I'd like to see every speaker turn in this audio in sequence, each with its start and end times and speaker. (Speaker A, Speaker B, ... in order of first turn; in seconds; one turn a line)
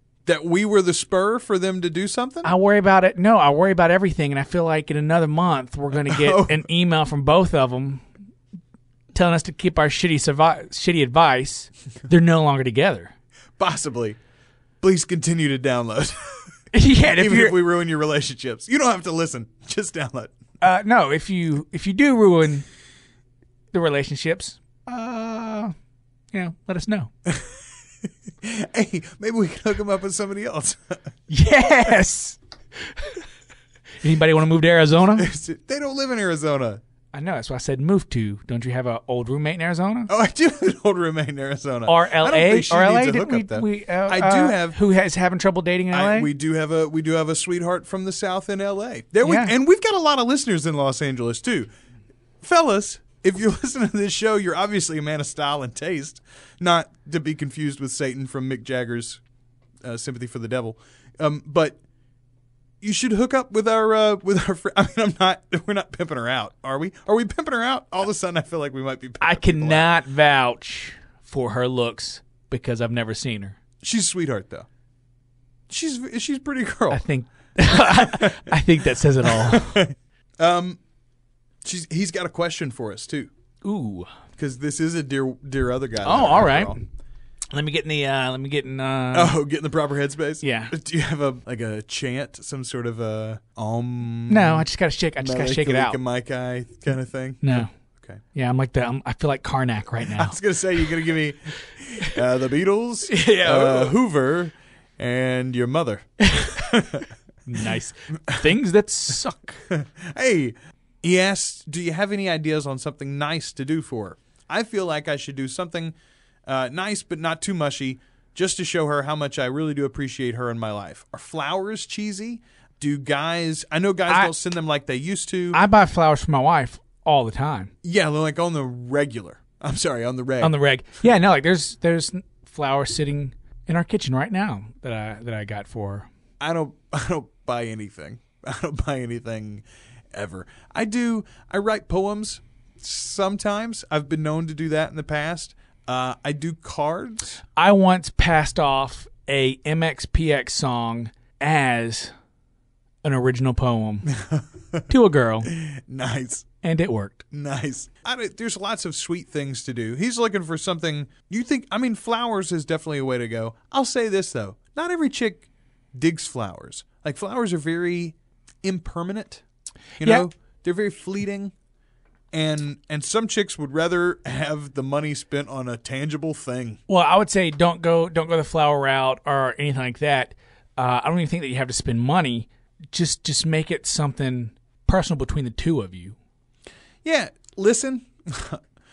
Speaker A: 0.2-2.5
Speaker B: 2.4-8.1
Speaker A: 5.9-6.7
Speaker B: 9.1-13.1
Speaker A: 13.6-14.2
Speaker A: 14.8-20.3
Speaker B: 16.7-17.6
Speaker B: 20.6-22.7
Speaker B: 23.7-25.8
Speaker B: 26.3-27.1
Speaker A: 27.3-31.1
Speaker B: 31.3-32.4
Speaker B: 34.0-35.3
Speaker A: 35.1-36.8
Speaker B: 37.1-40.1
Speaker A: 40.1-44.8
Speaker B: 41.9-46.3
Speaker A: 45.9-51.7
Speaker B: 49.2-49.5
Speaker A: 52.4-59.2
Speaker A: 59.8-61.8
Speaker A: 62.8-69.9
Speaker B: 69.2-73.6
Speaker A: 73.8-74.7
Speaker A: 75.7-77.0
Speaker B: 76.9-79.8
Speaker A: 77.7-78.6
Speaker A: 79.2-80.8
Speaker A: 81.6-83.3
Speaker B: 83.6-84.1
Speaker A: 84.4-86.8
Speaker B: 86.0-86.8
Speaker B: 87.5-89.4
Speaker A: 89.1-94.7
Speaker B: 90.4-90.7
Speaker B: 94.3-96.0
Speaker A: 95.2-98.2
Speaker B: 97.4-97.7
Speaker B: 98.3-100.4
Speaker A: 100.1-107.1
Speaker B: 103.1-104.0
Speaker B: 106.3-106.6
Speaker B: 107.5-109.6
Speaker A: 109.7-116.0
Speaker A: 116.5-125.6
Speaker B: 125.5-127.7
Speaker A: 127.8-131.1
Speaker B: 130.4-136.1
Speaker A: 136.4-147.4
Speaker B: 147.6-152.1
Speaker B: 153.0-154.1
Speaker A: 154.1-154.9
Speaker B: 154.9-155.5
Speaker A: 155.5-156.5
Speaker B: 156.6-157.3
Speaker A: 157.3-169.4
Speaker A: 170.0-171.5
Speaker B: 170.0-170.3
Speaker A: 172.3-176.8
Speaker B: 176.9-186.2
Speaker A: 187.0-188.6